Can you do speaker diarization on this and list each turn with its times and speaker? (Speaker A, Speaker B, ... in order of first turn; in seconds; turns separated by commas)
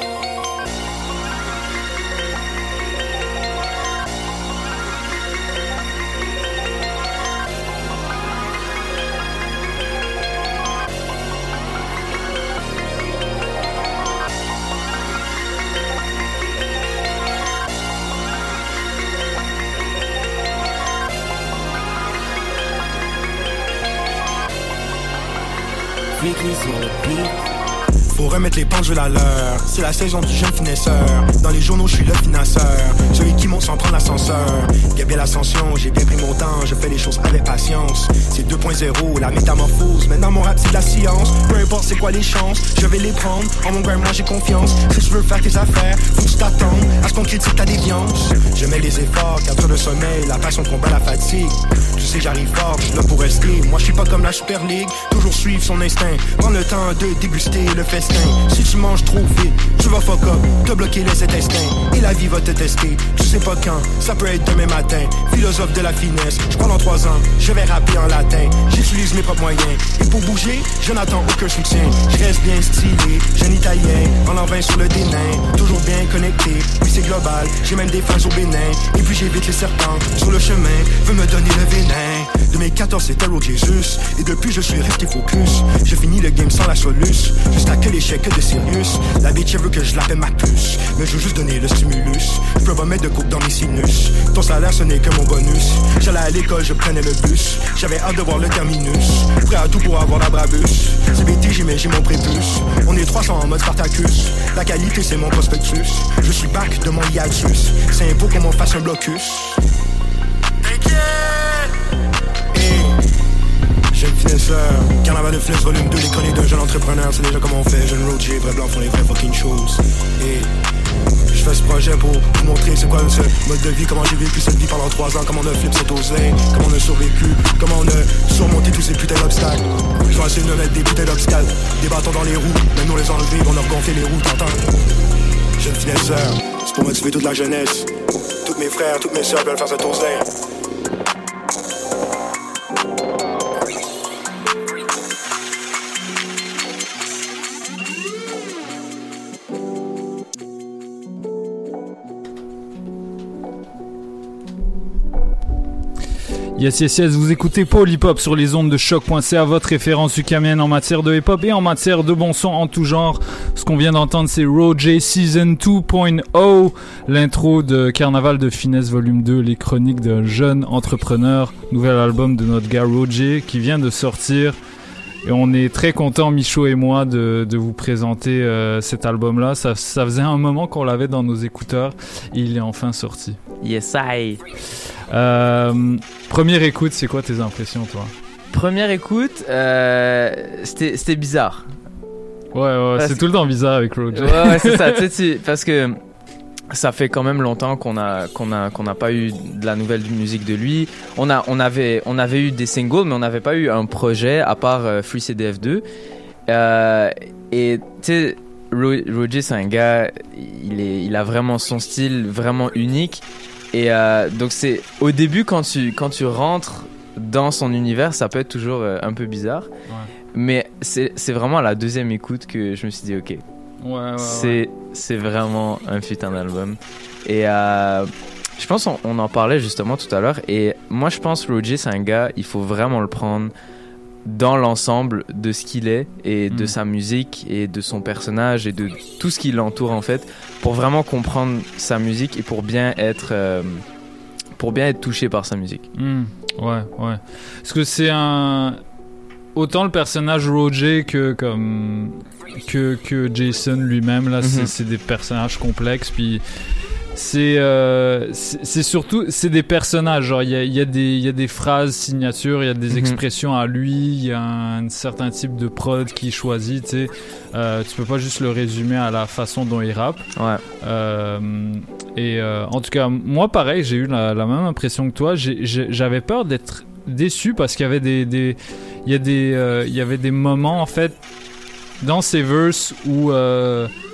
Speaker A: 28.1-109.6, Speaker A: 112.5-112.9, Speaker A: 113.9-120.5, Speaker A: 121.3-134.7, Speaker A: 135.6-137.9, Speaker A: 138.4-140.3, Speaker B: 156.6-174.6, Speaker B: 175.2-183.4, Speaker C: 183.6-184.4, Speaker B: 185.1-188.1, Speaker C: 188.5-191.7, Speaker B: 192.5-194.9, Speaker C: 194.1-196.0, Speaker C: 196.7-205.8, Speaker C: 206.5-213.2, Speaker C: 213.7-219.7, Speaker C: 220.3-223.4, Speaker B: 223.8-224.6, Speaker C: 224.2-233.5, Speaker C: 234.2-243.8, Speaker C: 244.6-245.9, Speaker B: 245.9-248.8, Speaker B: 249.6-256.4, Speaker C: 254.4-254.7, Speaker B: 257.1-270.2, Speaker C: 262.9-263.2, Speaker C: 270.4-270.6, Speaker B: 270.8-281.2, Speaker B: 282.0-283.9